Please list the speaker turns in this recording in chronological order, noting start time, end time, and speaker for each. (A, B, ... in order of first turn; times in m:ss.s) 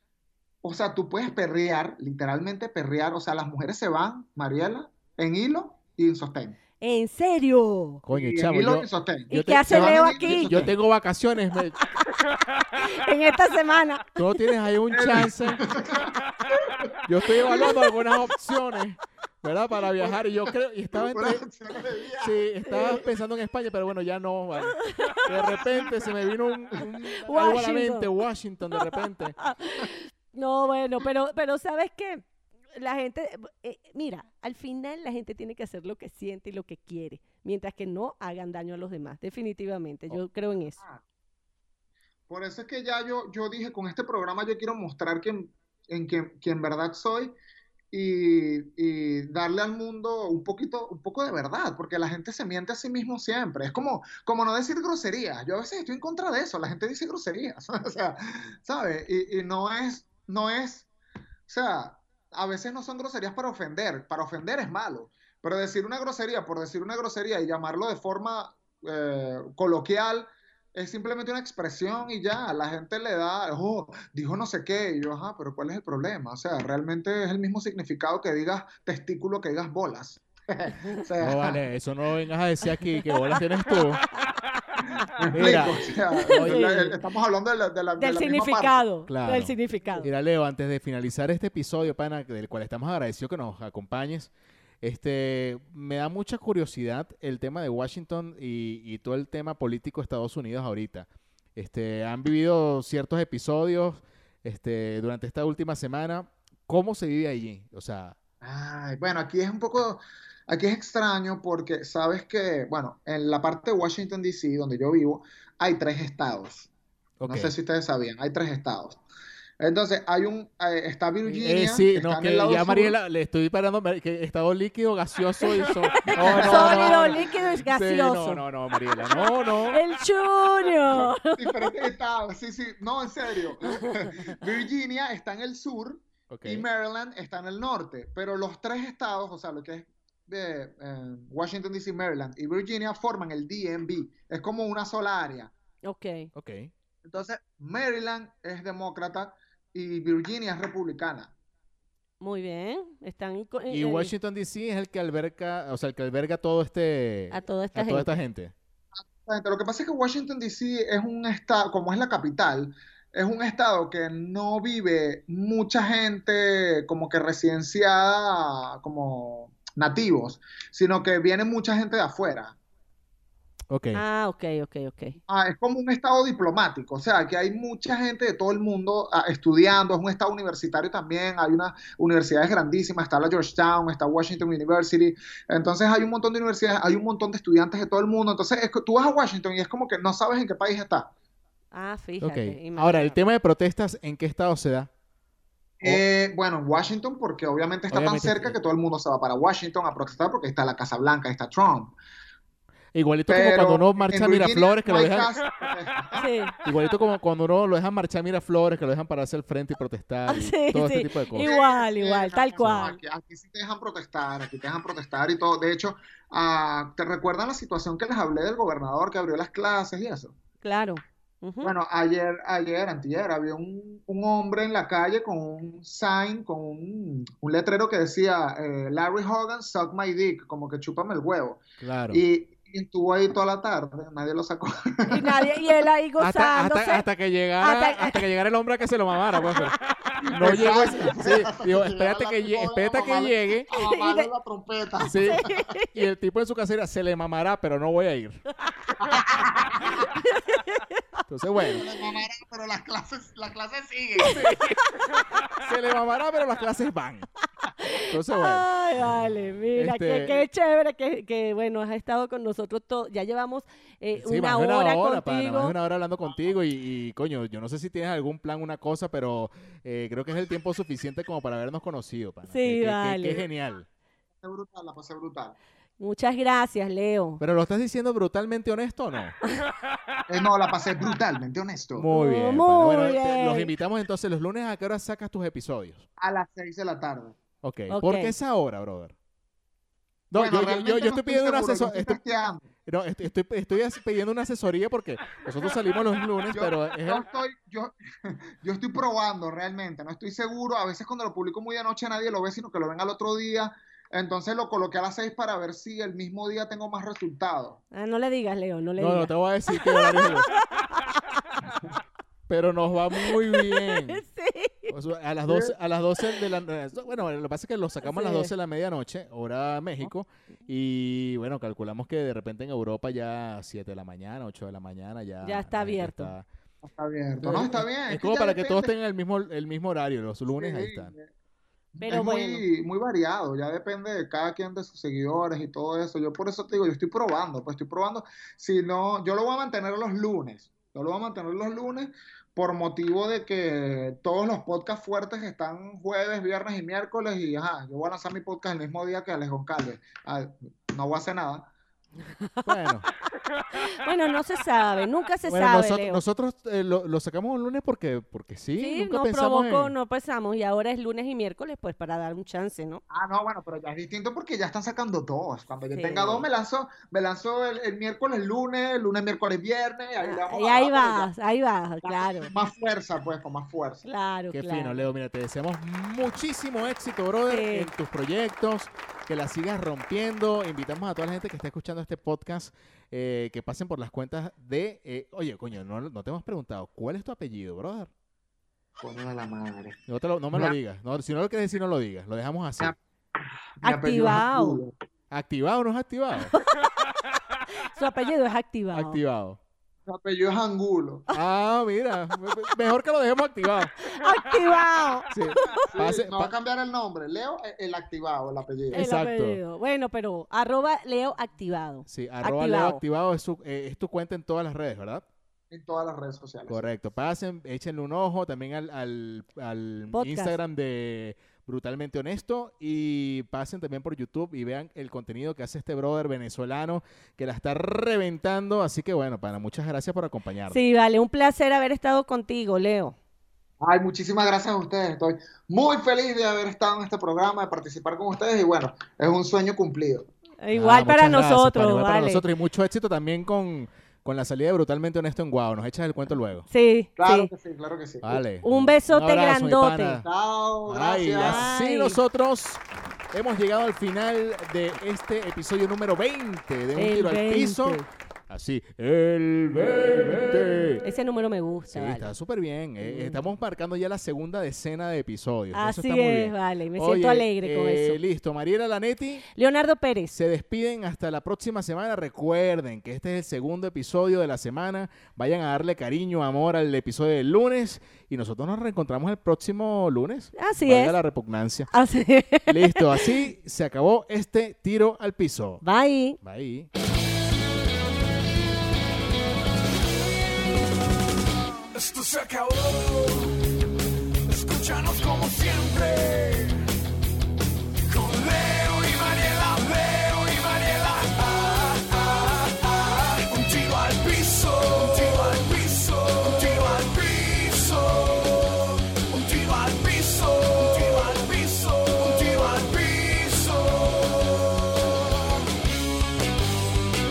0:00.6-0:06.6 A
0:06.8-0:08.0 B
0:08.0-0:11.8 C
0:08.1-0:10.7 A
0:09.3-0:10.6 B
0:12.8-0:14.2 B
0:14.2-0:15.6 C
0:14.9-0:17.7 A
0:17.0-0:21.5 C
0:17.5-0:17.8 B
0:20.9-0:23.1 A
0:22.2-0:29.4 C
0:22.7-0:23.0 B
0:24.9-0:25.6 B
0:27.0-0:28.1 B
0:28.8-0:40.8 B
0:40.8-0:41.0 A
0:42.3-0:47.4 A
0:47.9-1:00.9 A
1:01.5-1:21.6 A
1:21.2-1:24.0 C
1:23.0-1:23.3 B
1:25.0-1:28.8 A
1:25.3-1:26.8 C
1:26.1-1:27.0 B
1:28.0-1:30.1 B
1:29.1-1:34.3 C
1:34.8-1:48.2 C
1:48.4-1:56.7 A
1:57.2-1:57.5 C
1:57.3-1:59.0 A
1:59.6-2:02.9 A
2:01.3-2:09.8 C
2:05.5-2:11.8 B
2:06.1-2:07.4 A
2:10.9-2:25.5 A
2:16.3-2:16.7 C
2:25.8-2:26.3 B
2:26.3-2:26.7 C
2:27.0-2:31.3 A
2:32.2-2:34.1 B
2:33.7-2:38.5 C
2:37.3-2:38.1 B
2:39.0-2:52.6 A
2:53.7-2:54.0 C
2:53.9-2:55.2 B
2:55.3-3:11.1 A
3:11.7-3:13.2 B
3:12.2-3:14.9 C
3:15.8-3:22.0 A
3:17.9-3:18.6 C
3:22.9-3:25.3 C
3:23.3-3:26.3 A
3:26.2-3:26.5 B
3:26.6-3:31.5 C
3:30.3-3:33.0 B
3:31.4-3:40.3 A
3:40.6-3:41.7 B
3:41.6-3:55.8 A
3:51.8-3:52.2 C
3:55.1-3:57.1 B
3:56.2-4:03.7 C
3:57.6-3:58.2 B
4:00.2-4:05.4 A
4:03.7-4:04.3 B
4:05.0-4:08.4 C
4:05.2-4:06.0 B
4:09.0-4:10.1 A
4:09.8-4:11.2 B
4:11.3-4:11.8 C
4:11.7-4:14.5 A
4:14.2-4:15.1 B
4:14.3-4:14.8 C
4:15.6-4:17.3 C
4:17.8-4:25.8 B
4:18.1-4:19.2 C
4:19.8-4:20.5 C
4:24.2-4:33.9 C
4:32.5-4:33.4 B
4:34.4-4:35.6 A
4:36.0-4:37.4 B
4:37.4-4:39.4 C
4:40.3-4:42.1 A
4:42.0-4:46.1 C
4:42.1-4:43.7 B
4:46.2-4:47.4 A
4:47.6-4:49.2 C
4:47.9-4:48.3 B
4:50.3-4:52.2 C
4:50.3-4:52.7 A
4:52.9-4:57.3 C
4:56.5-5:07.8 A
5:07.9-5:11.6 B
5:09.0-5:10.5 C
5:12.5-5:14.2 C
5:13.1-5:14.9 B
5:14.9-5:26.5 C
5:15.5-5:15.8 A
5:18.0-5:18.5 B
5:25.4-5:26.3 B
5:26.8-5:28.9 A
5:27.4-5:31.1 C
5:30.5-5:31.3 A
5:31.9-5:51.7 A
5:32.0-5:32.6 B
5:52.4-5:52.9 B
5:52.7-5:53.1 C
5:53.7-5:56.2 B
5:55.4-5:59.9 C
5:58.8-6:03.0 B
6:03.1-6:11.3 A
6:05.9-6:06.4 B
6:10.2-6:12.5 B
6:12.0-6:14.1 A
6:14.0-6:15.1 B
6:14.5-6:28.1 C
6:17.5-6:17.9 B
6:29.0-6:30.0 A
6:30.1-6:33.0 C
6:33.8-6:34.9 A
6:33.8-6:34.8 B
6:35.3-6:36.5 C
6:37.9-6:39.2 B
6:38.9-6:39.6 C
6:40.1-6:41.3 A
6:41.3-6:43.9 C
6:44.0-6:45.9 B
6:45.3-6:46.5 C
6:46.0-6:49.0 A
6:48.9-6:49.6 C
6:48.9-6:53.0 B
6:52.1-6:55.2 C
6:55.7-6:56.9 A
6:56.7-7:10.8 C
7:00.1-7:00.6 B
7:10.7-7:13.2 B
7:13.8-7:20.3 A
7:20.6-7:22.4 B
7:20.7-7:26.7 C
7:26.7-7:27.5 B
7:27.2-7:28.4 A
7:28.2-7:30.3 C
7:28.6-7:30.2 B
7:30.2-7:31.7 A
7:30.9-7:41.0 C
7:31.4-7:32.2 B
7:37.0-7:38.1 B
7:41.0-7:42.3 B
7:41.9-7:49.4 C
7:43.0-7:43.4 B
7:45.7-7:48.2 B
7:49.6-7:50.4 B
7:50.3-8:01.9 C
8:00.6-8:01.2 B
8:01.9-8:03.3 B
8:02.7-8:05.8 C
8:05.8-8:06.4 B
8:06.4-8:06.9 C
8:11.9-8:13.6 D
8:14.4-8:16.9 D
8:18.0-8:34.9 D